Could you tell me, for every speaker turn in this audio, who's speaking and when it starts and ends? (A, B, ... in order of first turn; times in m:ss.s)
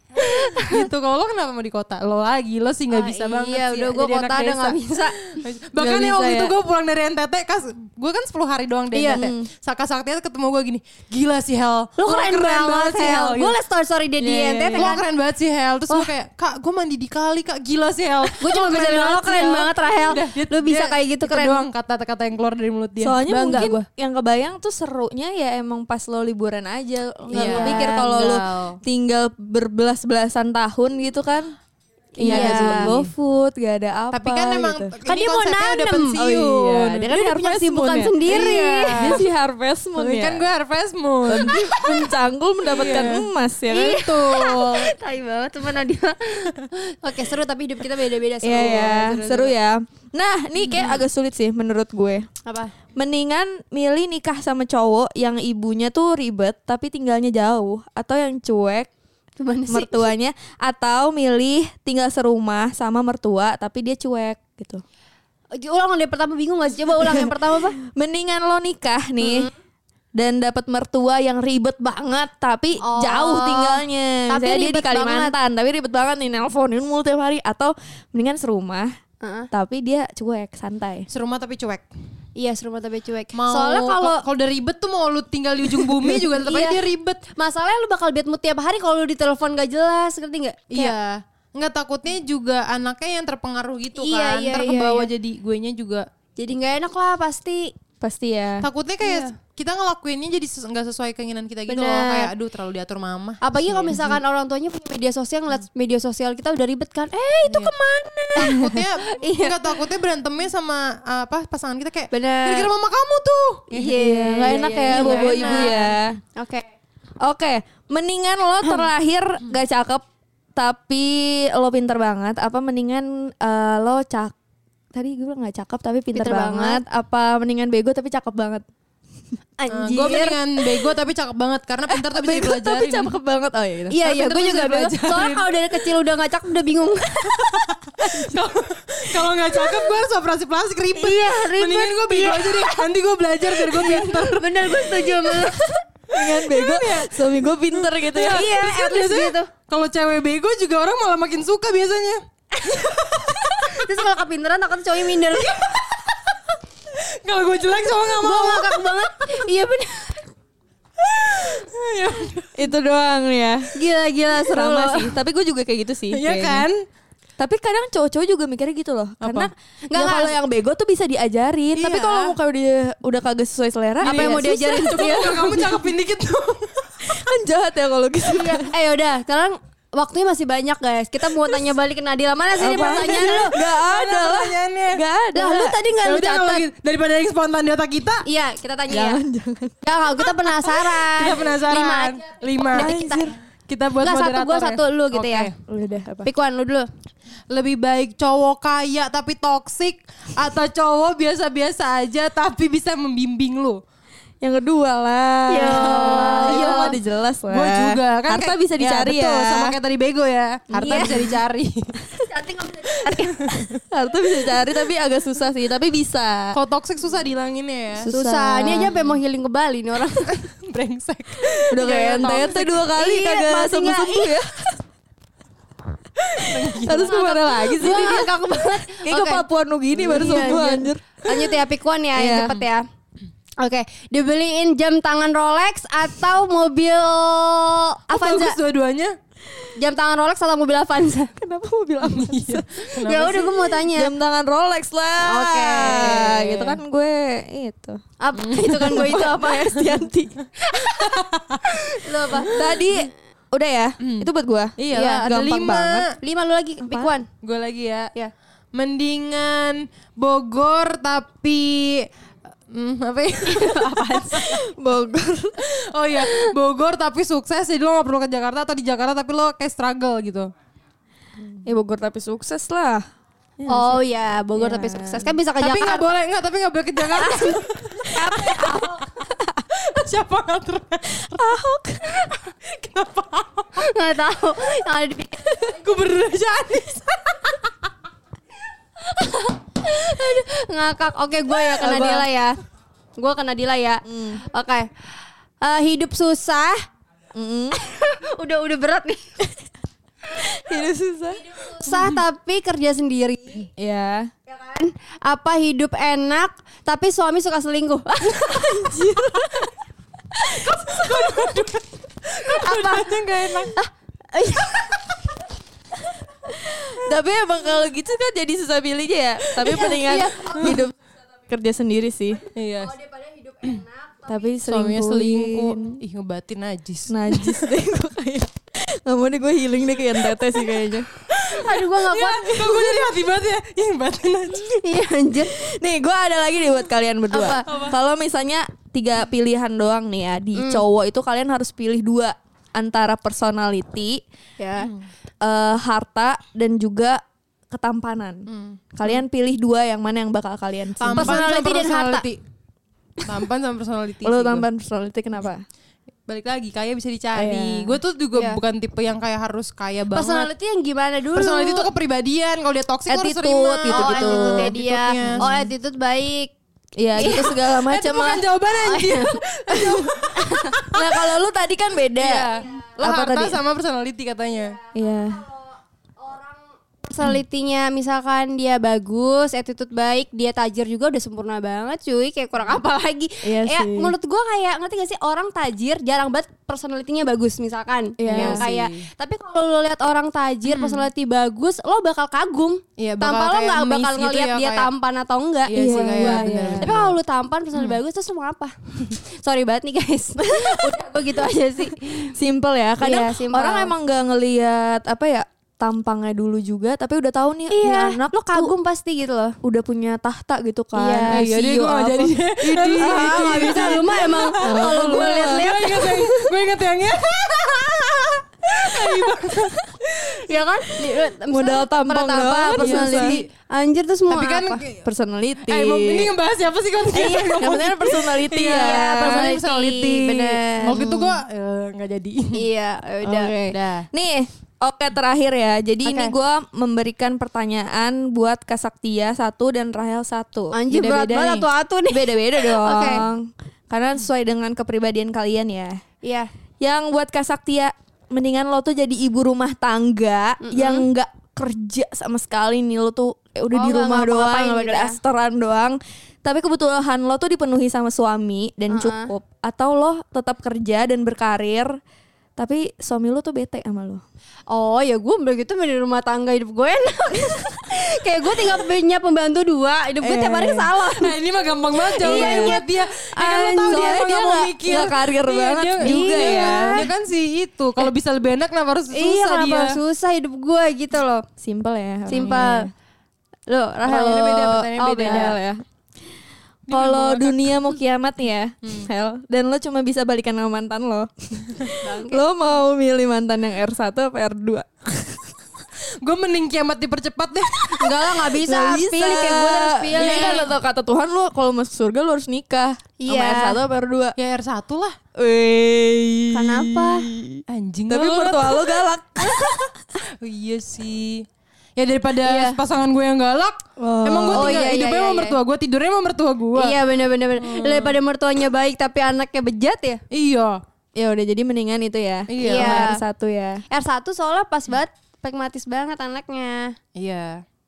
0:00.2-0:00.9 A
0:00.2-0:13.6 B
0:02.9-0:05.2 A
0:05.8-0:06.6 C
0:08.9-0:09.3 A
0:09.1-0:09.5 C
0:12.0-0:15.1 A
0:14.2-0:15.0 C
0:14.7-0:23.8 B
0:18.4-0:21.6 A
0:23.0-0:31.5 C
0:23.3-0:23.8 A
0:27.3-0:28.4 A
0:27.3-0:28.8 B
0:32.2-0:33.0 A
0:32.2-0:34.9 C
0:32.2-0:33.1 B
0:34.1-0:37.1 B
0:35.1-0:36.2 A
0:36.2-0:40.5 C
0:37.1-0:39.2 A
0:38.3-0:39.3 B
0:40.0-0:41.6 B
0:41.3-0:44.2 C
0:41.5-0:42.0 A
0:42.6-0:43.3 B
0:43.7-0:49.2 A
0:44.2-0:44.9 B
0:48.4-0:52.3 C
0:49.1-0:49.5 B
0:50.6-0:51.0 B
0:52.4-0:52.7 A
0:53.0-0:58.9 C
0:59.4-1:00.0 A
0:59.7-1:04.8 C
1:05.6-1:07.8 A
1:07.0-1:09.5 C
1:09.2-1:09.5 A
1:10.2-1:18.9 C
1:12.8-1:15.4 A
1:19.2-1:19.5 A
1:19.5-1:21.1 C
1:21.1-1:21.9 B
1:22.4-1:24.2 A
1:23.3-1:27.2 B
1:26.3-1:31.0 A
1:30.7-1:36.1 B
1:33.9-1:35.1 A
1:36.4-1:37.7 A
1:38.0-1:38.7 C
1:38.6-1:44.2 B
1:39.0-1:39.3 A
1:41.7-1:42.3 A
1:43.4-1:49.7 A
1:47.5-1:47.7 B
1:48.4-1:55.9 B
1:48.5-1:48.8 C
1:52.1-1:52.7 A
1:53.7-1:55.8 A
1:53.9-1:56.2 C
1:56.4-1:56.7 A
1:57.2-2:00.0 C
2:00.6-2:04.3 C
2:04.9-2:08.6 C
2:06.1-2:06.8 A
2:09.6-2:10.4 A
2:09.7-2:13.2 B
2:11.9-2:14.0 C
2:13.9-2:17.4 A
2:14.0-2:15.6 B
2:17.3-2:25.5 B
2:18.1-2:18.4 C
2:20.9-2:22.9 A
2:23.4-2:25.8 A
2:26.1-2:28.5 C
2:26.1-2:33.9 B
2:28.1-2:29.5 A
2:32.6-2:32.9 A
2:33.6-2:35.8 A
2:35.4-2:36.3 B
2:36.9-2:39.2 B
2:38.2-2:40.3 A
2:41.0-2:42.7 B
2:42.6-2:43.7 C
2:43.8-2:45.2 A
2:44.5-2:46.7 C
2:46.1-2:46.8 B
2:47.4-2:55.7 C
2:49.2-2:49.5 B
2:49.9-2:50.4 A
2:51.7-2:52.4 B
2:54.0-2:55.6 A
2:54.0-2:57.1 B
2:57.0-2:58.7 C
2:58.3-3:03.6 A
3:02.6-3:05.8 C
3:03.0-3:05.0 B
3:05.3-3:06.7 A
3:06.0-3:08.2 B
3:08.2-3:09.2 A
3:08.9-3:09.7 C
3:09.8-3:13.4 A
3:10.6-3:12.9 B
3:12.7-3:13.4 C
3:13.7-3:15.5 B
3:14.0-3:15.5 A
3:15.7-3:16.3 C
3:16.2-3:16.9 A
3:17.5-3:23.8 B
3:24.4-3:29.8 C
3:25.5-3:27.0 A
3:26.0-3:32.0 B
3:30.7-3:31.4 C
3:30.8-3:31.3 A
3:32.3-3:33.5 A
3:33.1-3:33.8 B
3:33.5-3:36.6 C
3:36.5-3:38.1 B
3:38.0-3:38.9 C
3:38.1-3:40.3 A
3:38.8-3:39.1 B
3:40.3-3:42.5 B
3:41.7-3:44.8 C
3:41.8-3:44.4 A
3:46.2-3:48.3 C
3:46.4-3:47.2 B
3:46.9-3:52.8 A
3:48.9-3:51.6 C
3:52.1-3:52.6 C
3:53.6-3:58.6 A
3:58.1-3:59.2 B
3:59.8-4:01.3 A
4:01.4-4:02.7 C
4:02.0-4:03.7 B
4:03.0-4:04.1 A
4:03.9-4:08.0 C
4:05.2-4:06.4 A
4:05.8-4:06.8 B
4:08.2-4:09.8 A
4:08.4-4:09.9 B
4:08.6-4:10.4 C
4:10.7-4:11.1 A
4:10.9-4:12.9 B
4:11.9-4:12.6 A
4:12.5-4:16.1 C
4:14.0-4:16.1 B
4:14.9-4:15.3 A
4:16.2-4:17.3 A
4:16.8-4:17.2 C
4:17.4-4:18.1 B
4:18.7-4:22.1 B
4:22.7-4:24.6 B
4:23.5-4:24.6 A
4:24.4-4:25.7 C
4:25.6-4:30.5 B
4:26.2-4:26.5 A
4:31.6-4:33.0 C
4:33.6-4:34.0 B
4:33.7-4:36.1 A
4:34.6-4:35.4 C
4:35.6-4:38.8 B
4:37.2-4:37.6 A
4:38.1-4:39.6 C
4:38.5-4:39.0 A
4:39.7-4:41.4 B
4:41.2-4:42.3 C
4:42.3-4:43.8 B
4:43.8-4:45.8 A
4:45.7-4:47.6 B
4:49.0-4:52.5 A
4:51.8-4:52.3 C
4:53.2-4:54.9 A
4:54.1-4:54.4 C
4:55.6-4:56.8 A
4:57.4-4:57.8 C
4:57.7-4:59.3 A
5:00.3-5:01.4 C
5:01.4-5:03.7 A
5:03.8-5:04.3 C
5:04.5-5:09.0 A
5:08.2-5:09.7 C
5:10.4-5:11.6 A
5:10.8-5:13.7 B
5:12.3-5:13.1 A
5:13.7-5:15.2 A
5:16.5-5:21.0 C
5:19.6-5:20.8 B
5:19.8-5:20.8 A
5:21.5-5:22.5 C
5:22.6-5:23.0 B
5:22.8-5:24.5 A
5:24.3-5:26.0 C
5:24.7-5:27.8 B
5:27.1-5:31.1 C
5:31.3-5:34.8 B
5:31.5-5:33.1 A
5:34.7-5:35.6 A
5:35.6-5:44.2 C
5:37.3-5:37.6 A
5:37.6-5:38.0 B
5:40.6-5:40.8 A
5:44.6-5:44.9 A
5:44.8-5:45.1 B
5:45.4-5:51.5 C
5:48.5-5:49.2 B
5:51.0-5:52.4 B
5:51.2-5:52.3 A
5:53.2-5:54.7 B
5:54.2-5:55.6 C
5:56.3-6:00.5 B
5:57.4-5:58.0 C
5:58.3-5:58.6 A
6:00.1-6:01.9 A
6:01.3-6:05.4 B
6:03.1-6:04.8 C
6:03.9-6:06.5 A
6:05.4-6:05.7 C
6:07.0-6:08.5 C
6:07.2-6:07.6 A
6:07.2-6:11.3 B
6:08.8-6:09.4 A
6:10.4-6:10.8 A
6:10.9-6:13.6 C
6:12.2-6:14.8 B
6:14.9-6:42.3 A
6:14.9-6:15.4 C
6:23.4-6:24.1 C
6:28.2-6:28.6 C
6:28.3-6:29.1 B
6:30.7-6:31.1 B
6:33.0-6:34.9 B
6:35.7-6:37.2 B
6:35.7-6:37.0 C
6:37.7-6:38.0 B
6:40.4-6:41.0 C
6:42.3-6:48.7 C
6:43.0-6:43.9 A
6:47.7-6:49.6 A
6:49.6-6:54.0 C
6:50.9-6:51.5 A
6:51.3-7:00.4 B
6:52.8-6:56.1 A
6:54.6-6:56.6 C
6:58.8-6:59.8 C
7:00.5-7:04.8 A
7:01.5-7:03.4 C
7:02.8-7:03.5 B
7:04.3-7:05.1 B
7:05.0-7:06.4 C
7:05.6-7:12.6 B
7:07.2-7:07.8 A
7:07.2-7:09.5 C
7:08.7-7:11.1 A
7:10.8-7:11.4 C
7:12.5-7:13.8 A
7:13.3-7:13.5 C
7:13.4-7:14.1 B
7:14.1-7:26.0 C
7:16.0-7:16.3 A
7:20.7-7:23.3 A
7:26.2-7:26.5 A
7:26.8-7:42.0 C
7:30.6-7:31.1 A
7:33.7-7:35.2 A
7:38.9-7:39.3 A
7:42.6-7:44.2 C
7:44.7-7:51.4 A
7:50.2-7:50.9 C
7:51.1-8:00.0 B
7:52.1-7:54.2 A
7:52.2-7:52.8 C
7:53.3-7:57.1 C
7:56.0-7:57.1 A
7:59.1-8:01.4 A
8:01.6-8:02.9 C
8:02.3-8:02.9 A
8:02.3-8:02.7 B
8:03.7-8:05.6 A
8:04.1-8:05.6 B
8:04.1-8:05.8 C
8:06.9-8:07.9 B
8:06.9-8:15.5 C
8:08.8-8:09.1 B
8:12.0-8:12.4 A
8:16.2-8:18.3 B
8:18.0-8:20.7 A
8:18.6-8:24.4 C
8:20.2-8:20.7 B
8:23.2-8:23.8 A
8:24.4-8:25.2 B
8:25.4-8:29.9 C
8:26.5-8:27.3 A
8:27.7-8:29.0 B
8:30.4-8:37.0 B
8:32.4-8:32.8 A
8:34.0-8:34.9 C
8:34.5-8:35.6 A
8:36.8-8:40.2 A
8:37.6-8:38.2 B
8:40.3-8:40.8 B
8:41.2-8:43.8 C
8:42.5-8:43.1 B
8:42.6-8:43.2 A
8:43.9-8:47.0 A
8:47.2-8:47.6 B